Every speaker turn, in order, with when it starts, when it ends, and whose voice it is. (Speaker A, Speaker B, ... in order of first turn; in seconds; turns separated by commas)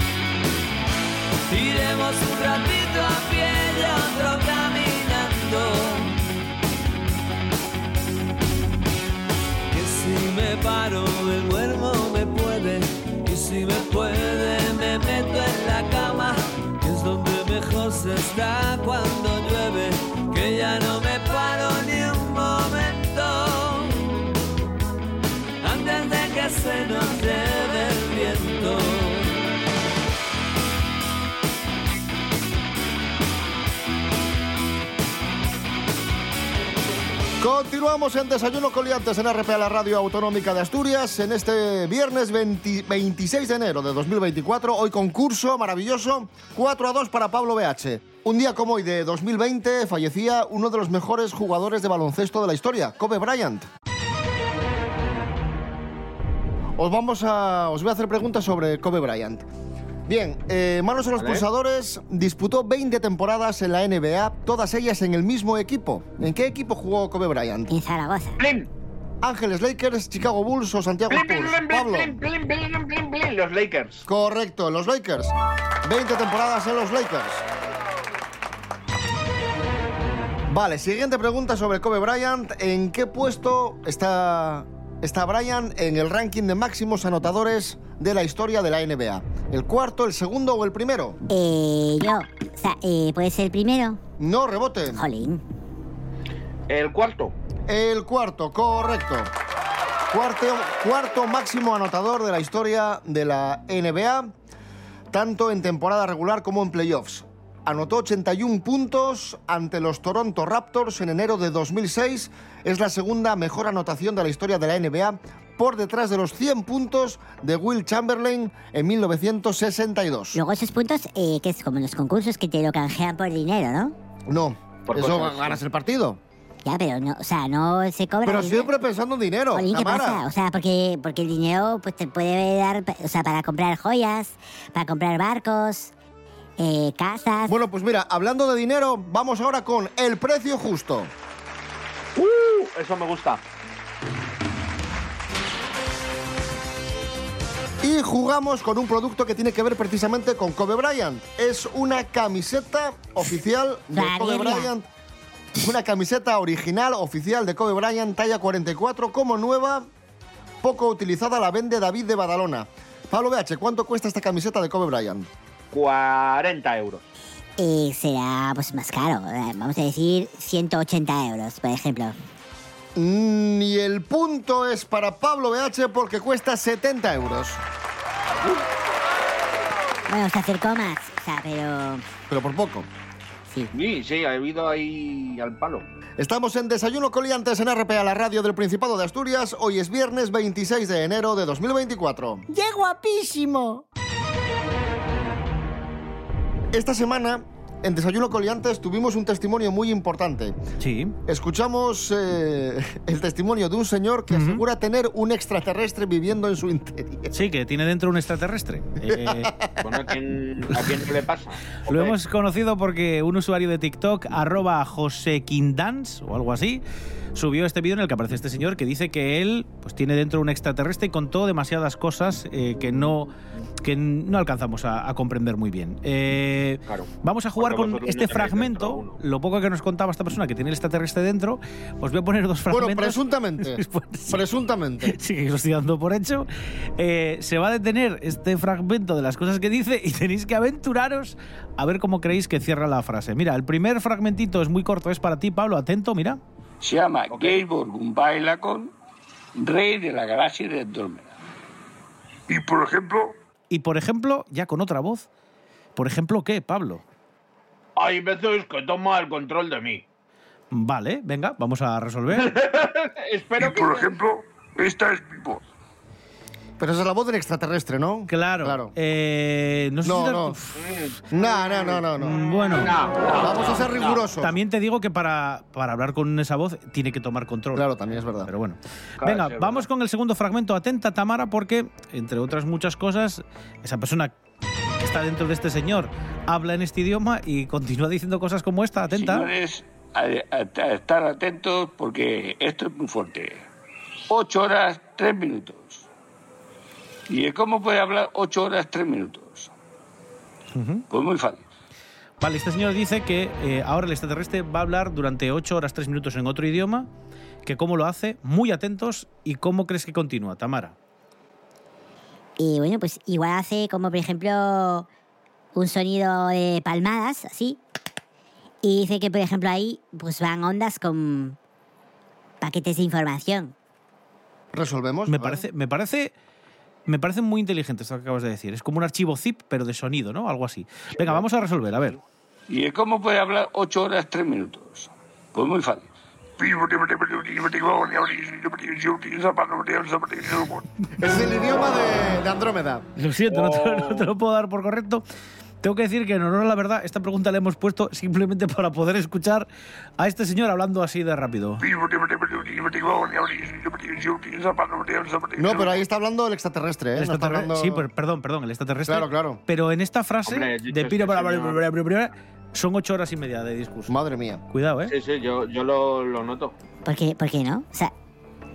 Speaker A: 1.5-6.2, Speaker A: 9.7-24.2, Speaker A: 25.6-29.4, Speaker B: 37.4-53.7, Speaker B: 56.8-59.5, Speaker B: 60.1-67.7, Speaker C: 67.7-68.4, Speaker D: 68.4-68.7, Speaker B: 69.2-72.2, Speaker D: 71.1-74.0, Speaker B: 74.1-77.5, Speaker B: 80.5-91.2, Speaker C: 91.3-94.0, Speaker B: 94.2-95.0, Speaker C: 94.9-95.4, Speaker D: 96.7-97.3, Speaker B: 97.7-99.3, Speaker B: 100.1-104.3, Speaker B: 105.1-120.4, Speaker C: 120.3-123.9, Speaker B: 124.3-126.2, Speaker D: 124.9-125.6, Speaker C: 126.7-128.7, Speaker B: 128.2-130.2, Speaker C: 129.5-135.9, Speaker C: 136.6-137.5, Speaker B: 137.5-141.1, Speaker D: 142.2-143.4, Speaker B: 147.8-154.9, Speaker C: 153.9-154.7, Speaker B: 155.6-159.9, Speaker B: 160.6-165.3, Speaker D: 165.7-167.0, Speaker C: 167.6-172.2, Speaker B: 173.0-177.6, Speaker C: 180.1-182.1, Speaker B: 182.3-182.9, Speaker D: 183.7-185.8, Speaker B: 186.2-192.5, Speaker B: 196.7-200.6, Speaker E: 200.8-201.1, Speaker B: 201.3-207.3, Speaker E: 204.3-204.6, Speaker E: 207.3-209.5, Speaker B: 209.1-209.7, Speaker D: 209.8-212.2, Speaker E: 211.9-216.8, Speaker E: 217.3-223.3, Speaker E: 223.8-234.4, Speaker D: 226.9-229.2, Speaker B: 232.7-235.2, Speaker E: 235.0-246.4, Speaker F: 246.8-248.9, Speaker D: 247.3-247.6, Speaker F: 249.6-251.3, Speaker G: 252.5-253.3, Speaker E: 253.7-255.3, Speaker E: 256.0-257.0, Speaker D: 258.0-260.0, Speaker E: 260.7-262.6, Speaker D: 262.3-264.1, Speaker G: 263.6-265.6, Speaker B: 266.8-268.9, Speaker E: 268.3-270.8, Speaker B: 270.0-270.6, Speaker D: 270.8-272.0, Speaker B: 271.3-272.4, Speaker E: 272.2-272.9, Speaker D: 272.6-274.2, Speaker B: 273.4-274.5, Speaker E: 274.4-277.9, Speaker B: 277.8-278.5, Speaker E: 278.4-284.3, Speaker D: 279.2-279.9, Speaker E: 285.0-289.5, Speaker F: 289.1-293.7, Speaker F: 294.3-296.1, Speaker F: 297.3-299.7, Speaker E: 300.7-301.1, Speaker F: 301.1-301.7, Speaker E: 302.4-307.1, Speaker E: 307.6-310.9, Speaker C: 312.6-315.1, Speaker C: 315.8-317.8, Speaker C: 318.8-321.6, Speaker C: 322.6-323.8, Speaker B: 324.7-325.6, Speaker E: 325.3-326.3, Speaker E: 327.1-332.2, Speaker F: 332.7-336.1, Speaker G: 336.6-340.8, Speaker B: 341.2-343.1, Speaker E: 343.2-345.2, Speaker D: 343.5-344.3, Speaker E: 345.8-349.7, Speaker E: 350.2-351.8, Speaker G: 351.8-356.0, Speaker B: 355.6-358.1, Speaker E: 357.2-364.1, Speaker B: 359.1-359.6, Speaker D: 360.5-361.8, Speaker B: 364.1-364.6, Speaker E: 364.7-365.1, Speaker D: 365.1-366.7, Speaker C: 367.1-368.1